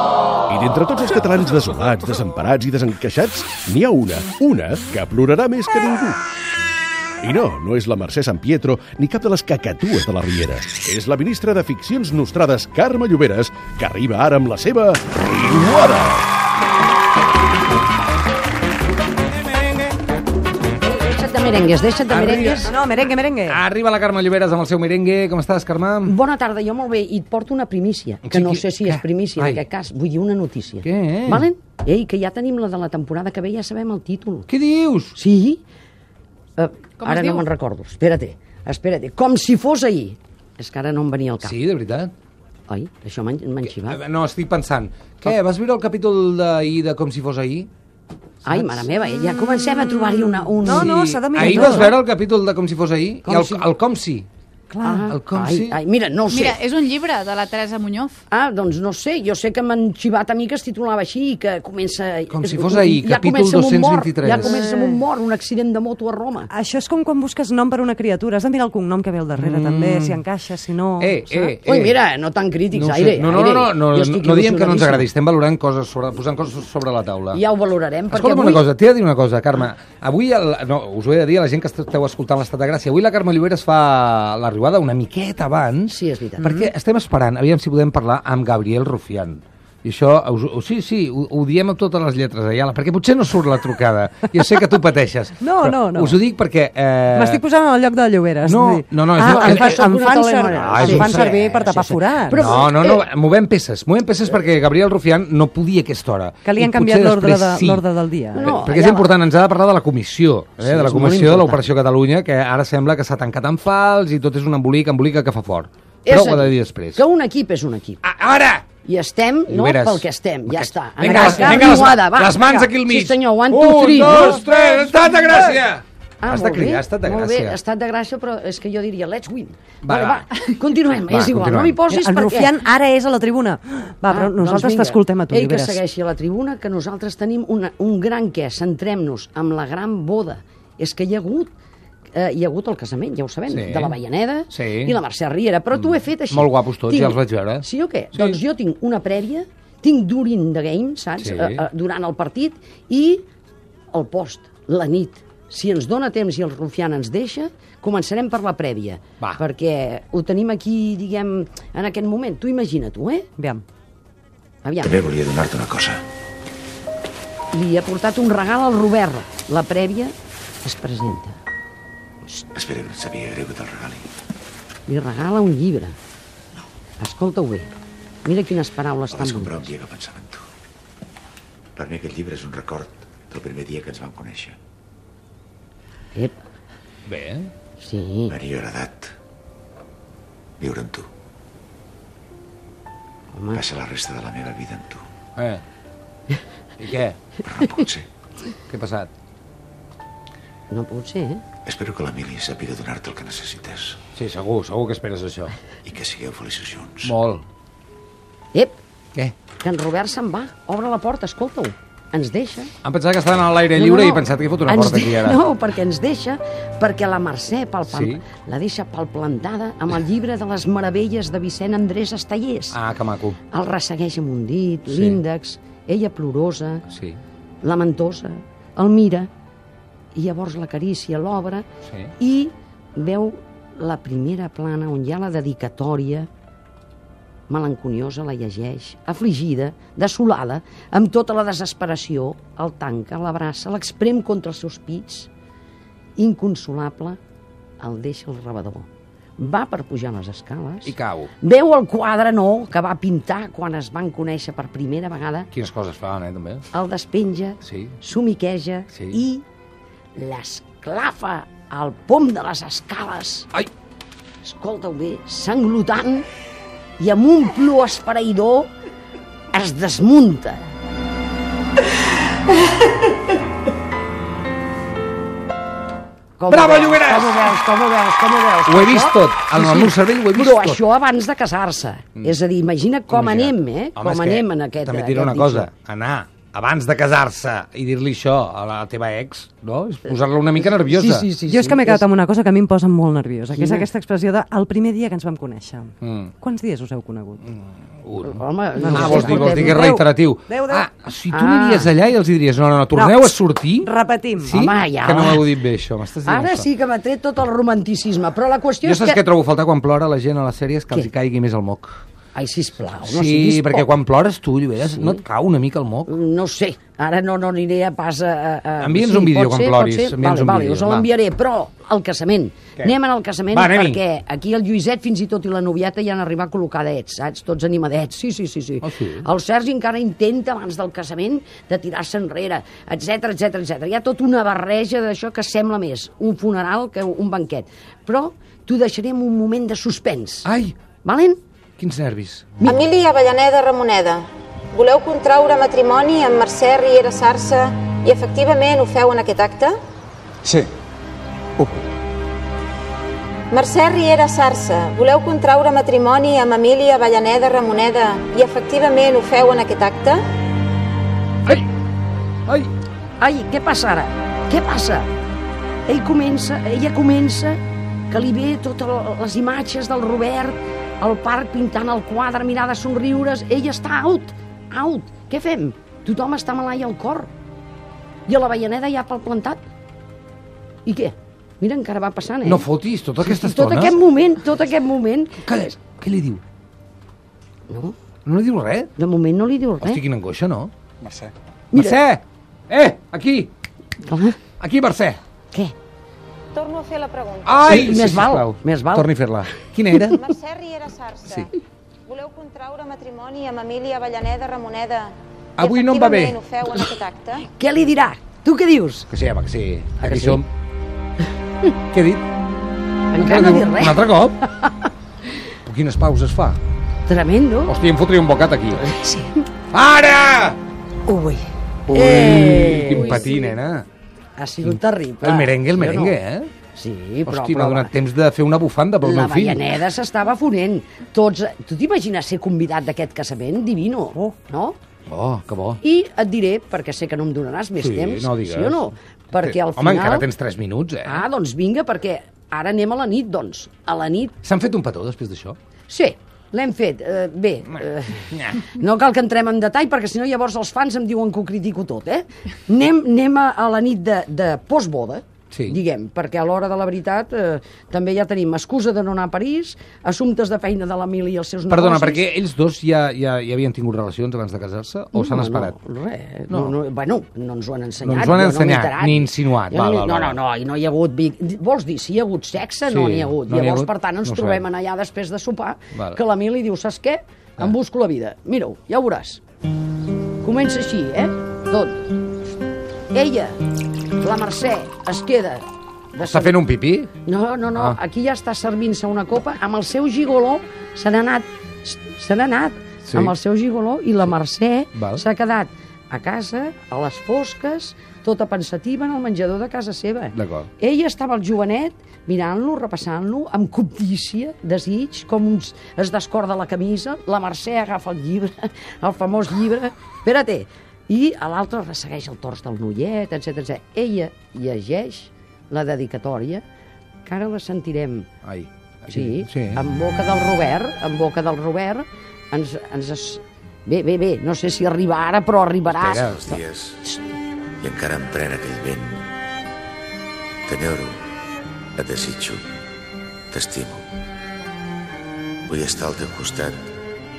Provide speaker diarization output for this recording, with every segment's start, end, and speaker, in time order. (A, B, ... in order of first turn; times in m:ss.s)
0:00.5-0:06.2 A
0:07.2-0:16.3 A
0:20.8-0:22.8 B
0:22.1-0:22.7 C
0:22.6-0:23.6 D
0:23.5-0:26.2 C
0:26.1-0:34.5 B
0:28.2-0:29.6 C
0:30.8-0:31.5 C
0:34.5-0:35.2 C
0:35.2-0:35.6 B
0:36.6-0:41.6 B
0:37.0-0:37.5 E
0:41.4-0:42.1 C
0:42.7-0:44.0 B
0:43.8-0:47.7 C
0:48.4-0:51.9 B
0:48.5-0:48.9 C
0:50.6-0:52.0 D
0:50.6-0:54.3 C
0:53.2-0:53.7 B
0:54.7-0:55.1 D
0:54.8-0:56.6 B
0:55.1-0:55.8 C
0:56.3-0:58.2 E
0:58.3-1:06.5 B
1:02.3-1:04.5 C
1:04.3-1:05.0 D
1:06.5-1:11.6 D
1:09.4-1:10.2 C
1:11.0-1:12.0 C
1:11.6-1:15.1 B
1:12.7-1:17.4 C
1:17.3-1:18.7 B
1:18.1-1:37.4 C
1:25.9-1:26.6 B
1:35.4-1:36.2 D
1:37.1-1:42.6 D
1:38.4-1:39.9 C
1:39.2-1:43.1 B
1:40.5-1:41.5 C
1:42.3-1:47.8 C
1:46.4-1:48.7 D
1:48.3-1:49.1 B
1:48.4-1:57.0 C
1:50.6-1:51.6 B
1:56.1-1:58.0 B
1:58.0-1:58.7 C
1:58.8-2:04.5 B
1:59.5-2:07.6 C
2:06.2-2:12.6 B
2:09.8-2:10.3 C
2:11.1-2:11.8 C
2:11.9-2:15.8 D
2:14.1-2:21.5 B
2:22.1-2:33.2 B
2:23.5-2:24.0 C
2:24.5-2:25.0 C
2:25.8-2:28.4 C
2:31.2-2:31.6 C
2:33.9-2:43.3 B
2:43.4-2:43.6 D
2:44.6-2:45.0 B
2:44.8-2:46.0 F
2:47.5-2:51.4 B
2:52.5-2:54.1 F
2:54.9-2:56.0 B
2:57.0-2:57.7 B
2:58.2-2:59.7 B
2:59.1-3:00.5 F
3:01.8-3:04.6 F
3:07.1-3:07.5 C
3:07.8-3:08.4 B
3:08.3-3:09.1 F
3:10.6-3:11.1 F
3:13.3-3:13.6 B
3:13.5-3:15.0 F
3:15.4-3:15.6 C
3:16.8-3:17.2 C
3:17.4-3:18.1 F
3:18.7-3:19.1 C
3:20.7-3:21.4 B
3:21.6-3:24.0 F
3:24.2-3:25.6 C
3:25.8-3:27.1 F
3:27.0-3:27.4 C
3:28.5-3:28.8 B
3:29.6-3:32.7 B
3:32.8-3:35.4 C
3:33.7-3:42.8 B
3:37.9-3:38.2 C
3:42.7-3:43.4 C
3:43.5-3:46.8 B
3:44.9-3:45.2 C
3:46.9-3:47.2 C
3:47.6-3:49.3 B
3:50.2-3:51.7 B
3:51.8-3:52.1 C
3:52.2-3:56.3 B
3:57.5-4:05.3 B
4:06.2-4:07.2 B
4:07.8-4:08.9 B
4:09.4-4:15.5 B
4:10.8-4:11.3 C
4:15.5-4:16.7 C
4:16.7-4:19.4 B
4:17.6-4:18.0 C
4:18.9-4:19.2 C
4:20.2-4:23.5 B
4:24.4-4:26.3 B
4:27.0-4:28.7 B
4:29.5-4:30.6 B
4:36.4-4:45.7 B
4:36.5-4:37.6 C
4:38.7-4:40.8 C
4:43.1-4:51.3 C
4:50.6-4:52.0 B
4:51.4-4:57.4 D
4:53.5-4:53.9 B
4:56.0-4:56.3 C
4:57.4-5:06.7 C
4:58.2-4:59.9 B
4:58.8-5:00.9 D
5:01.3-5:01.9 B
5:02.9-5:04.6 D
5:04.5-5:05.5 B
5:06.2-5:09.2 B
5:08.8-5:12.0 C
5:12.4-5:14.0 B
5:13.0-5:16.1 C
5:14.8-5:15.2 B
5:16.1-5:40.5 B
5:18.8-5:21.1 C
5:23.5-5:24.0 C
5:28.8-5:29.3 C
5:40.4-5:40.8 C
5:41.0-5:41.4 B
5:41.8-5:42.6 C
5:42.6-5:49.8 G
5:53.5-6:00.2 G
6:03.2-6:05.1 B
6:05.9-6:17.3 B
6:18.3-6:19.6 B
6:20.9-6:22.7 B
6:22.4-6:24.0 C
6:23.2-6:25.4 B
6:25.4-6:26.4 C
6:27.7-6:28.0 B
6:28.3-6:28.9 C
6:29.0-6:30.0 B
6:29.8-6:30.7 C
6:31.7-6:32.0 B
6:31.7-6:33.5 C
6:34.0-6:34.4 B
6:34.6-6:35.2 C
6:36.5-6:37.7 G
6:37.4-6:40.3 C
6:37.6-6:39.1 B
6:40.1-6:41.5 G
6:42.1-6:47.5 G
6:45.6-6:46.4 C
6:47.4-6:49.1 B
6:49.1-6:50.5 C
6:50.0-6:50.4 B
6:51.9-6:52.2 C
6:53.1-6:54.7 B
6:53.2-6:54.5 C
6:55.6-6:56.6 C
6:57.1-6:57.8 B
6:57.7-6:58.9 C
6:58.7-6:59.4 B
6:59.7-7:00.6 C
7:01.1-7:03.5 B
7:01.9-7:03.8 C
7:04.4-7:06.2 B
7:04.7-7:06.5 C
7:06.8-7:07.9 B
7:07.3-7:09.7 C
7:09.0-7:14.8 B
7:15.1-7:15.8 C
7:15.8-7:20.3 B
7:17.8-7:18.9 C
7:19.4-7:21.3 C
7:21.0-7:24.4 B
7:24.4-7:25.6 C
7:25.9-7:42.3 B
7:28.3-7:28.6 C
7:35.5-7:35.8 C
7:41.7-7:45.8 C
7:45.1-7:59.4 B
7:46.5-7:46.8 C
7:48.0-7:50.4 C
7:52.9-7:54.6 C
7:55.9-7:56.2 C
8:00.4-8:02.1 B
8:03.1-8:03.6 B
8:04.2-8:06.6 B
8:06.2-8:07.1 C
8:07.2-8:36.6 B
8:13.0-8:13.3 C
8:15.0-8:15.2 C
8:20.3-8:20.7 C
8:37.2-8:38.3 B
8:38.4-8:39.8 C
8:39.1-8:47.2 B
8:45.9-8:46.4 C
8:46.3-8:47.0 F
8:47.8-8:49.3 F
8:50.7-8:51.2 F
8:52.0-8:52.6 F
8:53.5-8:54.0 F
8:55.6-8:56.8 F